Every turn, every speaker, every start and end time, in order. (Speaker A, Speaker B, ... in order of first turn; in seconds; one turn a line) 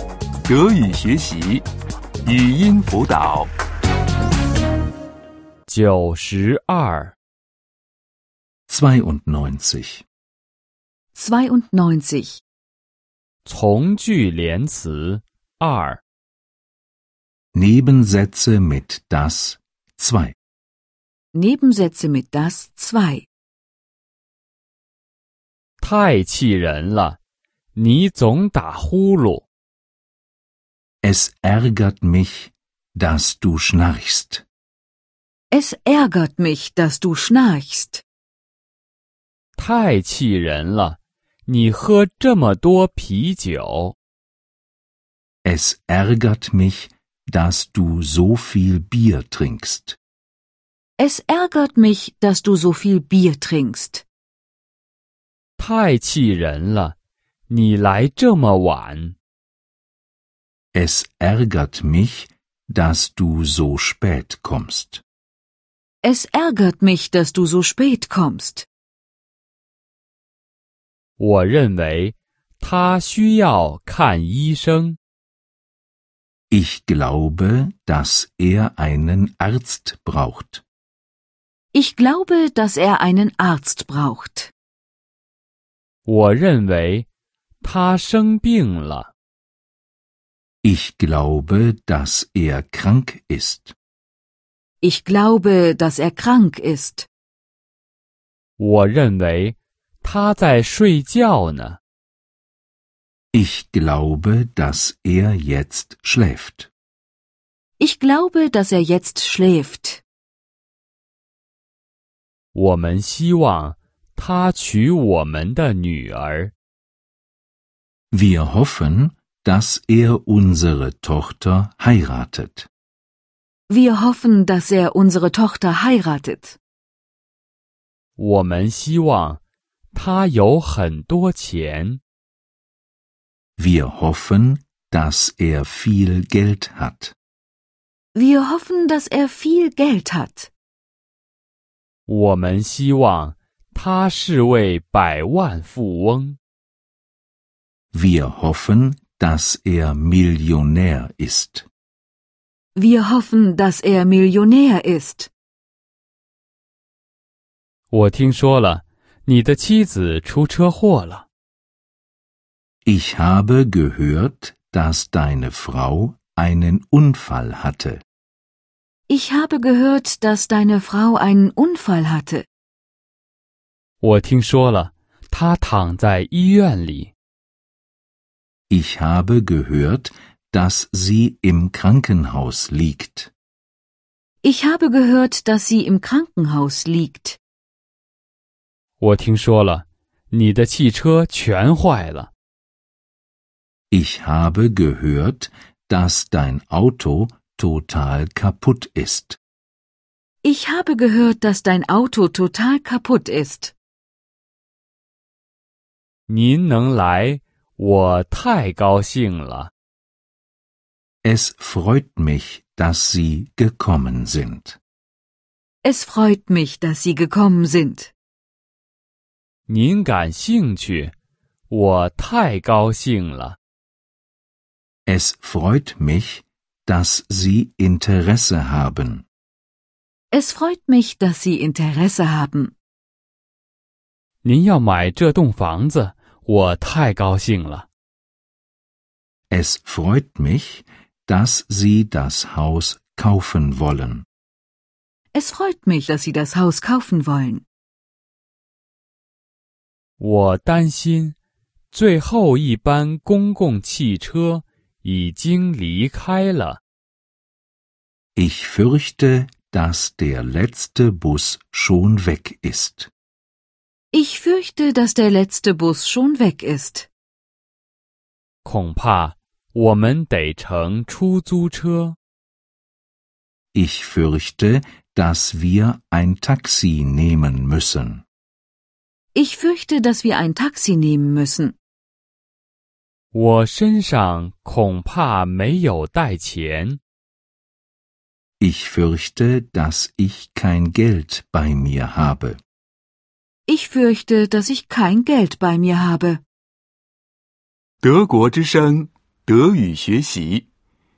Speaker A: 0.5-1.6
Speaker A: 2.2-3.5
Speaker B: 5.7-7.2
Speaker C: 8.7-10.0
Speaker D: 11.2-12.4
Speaker B: 13.4-16.0
Speaker C: 17.5-20.4
Speaker D: 21.3-23.3
Speaker B: 25.8-27.2
Speaker B: 27.8-29.4
Speaker C: 31.0-34.4
Speaker D: 35.5-38.0
Speaker B: 39.6-44.0
Speaker C: 45.4-50.0
Speaker D: 51.0-54.0
Speaker B: 55.6-57.0
Speaker B: 57.5-59.1
Speaker C: 60.7-65.0
Speaker D: 66.0-68.7
Speaker B: 71.2-75.0
Speaker C: 76.5-80.6
Speaker D: 81.7-84.5
Speaker B: 86.0-87.1
Speaker B: 87.6-89.1
Speaker C: 90.6-93.7
Speaker D: 94.8-97.1
Speaker B: 98.6-101.8
Speaker C: 103.3-106.7
Speaker D: 107.8-110.0
Speaker B: 112.5-116.5
Speaker C: 118.1-122.7
Speaker D: 123.7-126.6
Speaker B: 128.2-129.4
Speaker B: 129.9-132.0
Speaker C: 133.6-137.1
Speaker D: 138.2-140.5
Speaker B: 142.1-146.4
Speaker C: 147.9-151.7
Speaker D: 152.8-155.3
Speaker B: 157.9-161.2
Speaker C: 162.9-168.0
Speaker D: 169.1-172.5
Speaker B: 174.0-177.1
Speaker C: 178.7-183.3
Speaker D: 184.4-187.4
Speaker B: 189.0-192.3
Speaker C: 193.9-199.4
Speaker D: 200.4-203.7
Speaker B: 206.3-209.7
Speaker C: 211.2-214.8
Speaker D: 215.8-218.1
Speaker B: 219.7-221.1
Speaker B: 221.7-223.6
Speaker C: 225.1-229.2
Speaker D: 230.3-232.7
Speaker B: 234.4-237.9
Speaker C: 239.5-244.3
Speaker D: 245.3-247.6
Speaker B: 250.2-251.4
Speaker B: 251.9-256.8
Speaker C: 258.4-263.1
Speaker D: 264.1-267.1
Speaker B: 268.6-272.2
Speaker C: 273.7-278.2
Speaker D: 279.3-281.8
Speaker B: 283.3-287.0
Speaker C: 288.6-292.6
Speaker D: 293.7-296.4
Speaker A: 298.0-300.7